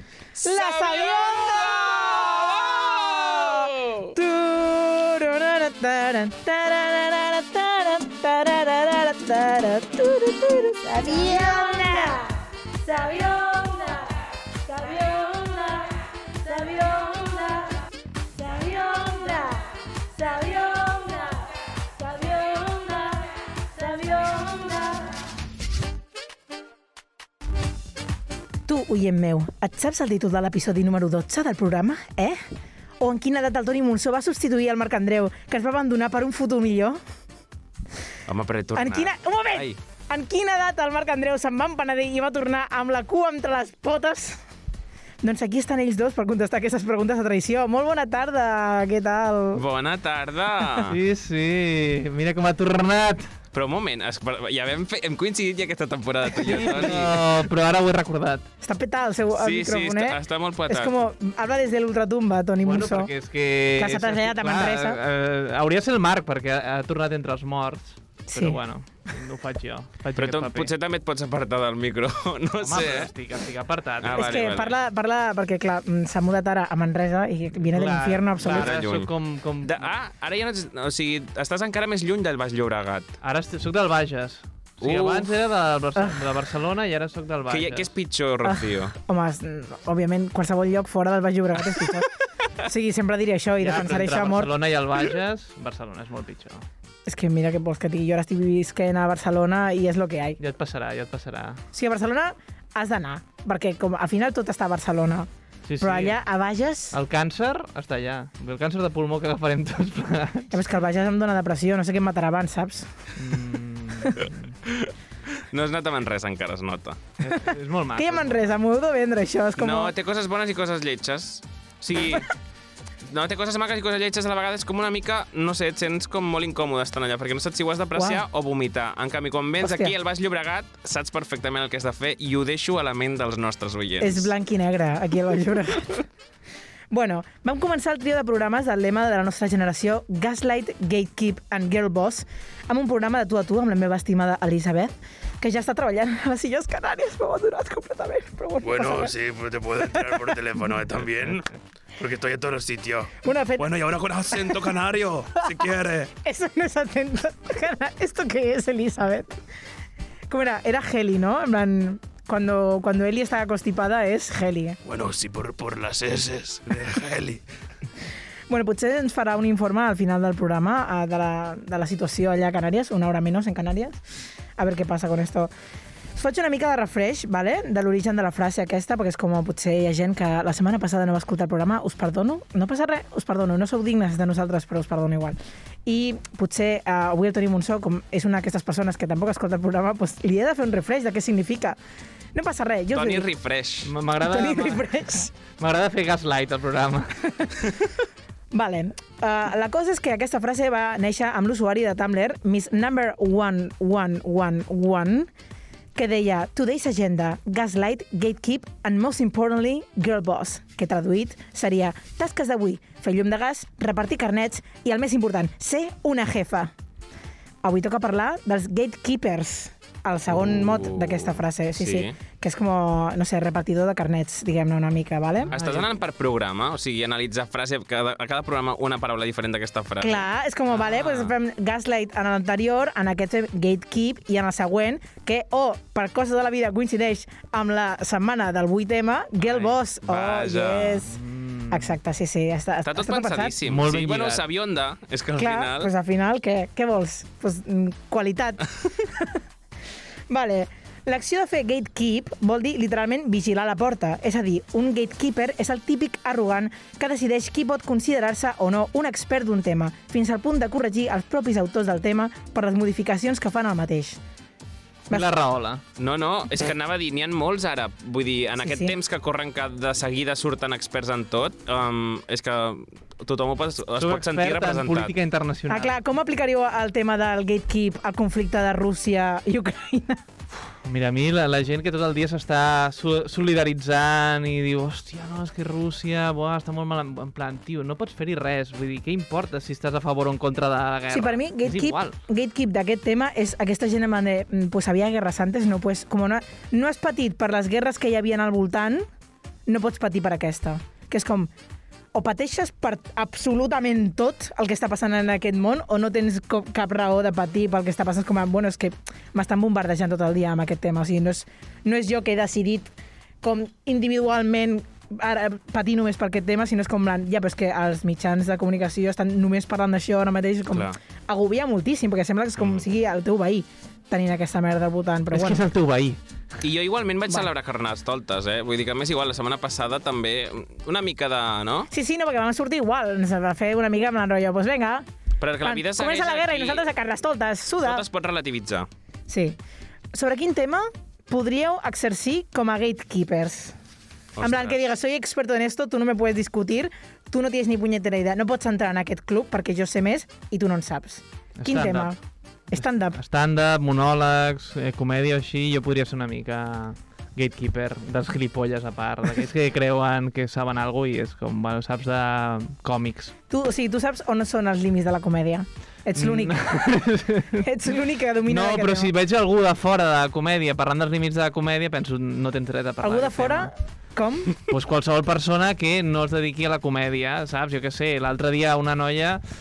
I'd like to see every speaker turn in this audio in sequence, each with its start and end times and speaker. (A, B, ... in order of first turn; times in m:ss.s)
0:00.4-0:04.1 A
0:00.4-0:12.2 B
0:10.8-0:17.7 C
0:18.3-0:25.2 C
0:28.7-0:32.4 B
0:33.0-0:37.0 B
0:38.3-0:39.8 A
0:38.8-0:44.4 B
0:45.2-0:49.6 B
0:49.5-0:51.0 A
0:50.9-0:53.3 D
0:53.5-0:57.4 A
0:56.4-0:58.4 D
0:58.6-1:03.1 B
0:59.3-1:00.9 A
1:02.6-1:10.7 D
1:03.8-1:05.0 B
1:08.3-1:08.6 B
1:10.2-1:13.1 A
1:12.6-1:14.3 D
1:14.0-1:14.8 A
1:14.1-1:18.8 B
1:17.6-1:19.9 D
1:18.4-1:23.2 A
1:23.2-1:27.9 D
1:24.8-1:25.3 A
1:26.0-1:26.3 B
1:27.5-1:28.9 A
1:28.4-1:32.1 B
1:32.6-1:34.5 B
1:33.6-1:36.7 D
1:37.0-1:40.4 B
1:40.4-1:41.6 D
1:41.7-1:45.3 B
1:45.7-1:46.2 D
1:45.8-1:47.0 B
1:46.9-1:50.5 D
1:50.5-1:52.9 B
1:53.2-1:54.5 D
1:54.6-1:57.0 A
1:57.2-1:58.5 D
1:57.3-1:59.9 B
1:59.6-2:02.3 A
2:03.0-2:14.3 A
2:07.9-2:08.2 B
2:09.6-2:09.9 B
2:14.0-2:16.0 B
2:16.9-2:29.1 B
2:28.6-2:36.1 E
2:33.2-2:33.7 B
2:36.1-2:39.3 B
2:40.3-2:44.8 B
2:44.8-2:47.4 E
2:48.5-2:54.0 B
2:54.6-2:55.5 B
2:56.1-3:11.8 B
3:12.3-3:13.3 B
3:12.9-3:13.9 A
3:13.8-3:14.9 D
3:14.2-3:15.3 B
3:15.5-3:17.2 D
3:18.5-3:25.3 B
3:25.9-3:36.7 B
3:37.6-3:45.5 B
3:40.3-3:42.2 A
3:45.5-3:45.9 D
3:45.5-3:51.3 A
3:50.0-4:01.2 B
3:59.4-4:01.0 A
4:01.1-4:02.0 D
4:01.7-4:03.5 B
4:02.8-4:05.9 A
4:03.6-4:04.4 D
4:05.3-4:09.4 B
4:10.3-4:24.2 B
4:25.1-4:25.8 D
4:26.0-4:35.1 A
4:28.6-4:28.9 B
4:34.0-4:36.0 D
4:35.7-4:40.2 B
4:40.8-4:52.2 D
4:51.1-4:59.0 B
4:59.7-5:01.5 B
5:02.1-5:25.6 B
5:20.7-5:21.0 A
5:25.3-5:26.2 D
5:26.6-5:31.9 A
5:31.9-5:35.0 B
5:35.4-5:36.9 A
5:35.6-5:38.0 B
5:37.8-5:38.9 A
5:39.3-5:39.6 B
5:40.1-5:43.7 B
5:44.3-5:44.8 A
5:44.4-5:52.2 B
5:51.6-5:52.1 D
5:52.7-5:53.2 B
5:52.7-6:03.3 D
6:03.5-6:06.9 B
6:06.2-6:07.9 D
6:07.6-6:09.1 B
6:08.4-6:13.7 D
6:13.0-6:14.6 B
6:14.7-6:19.4 D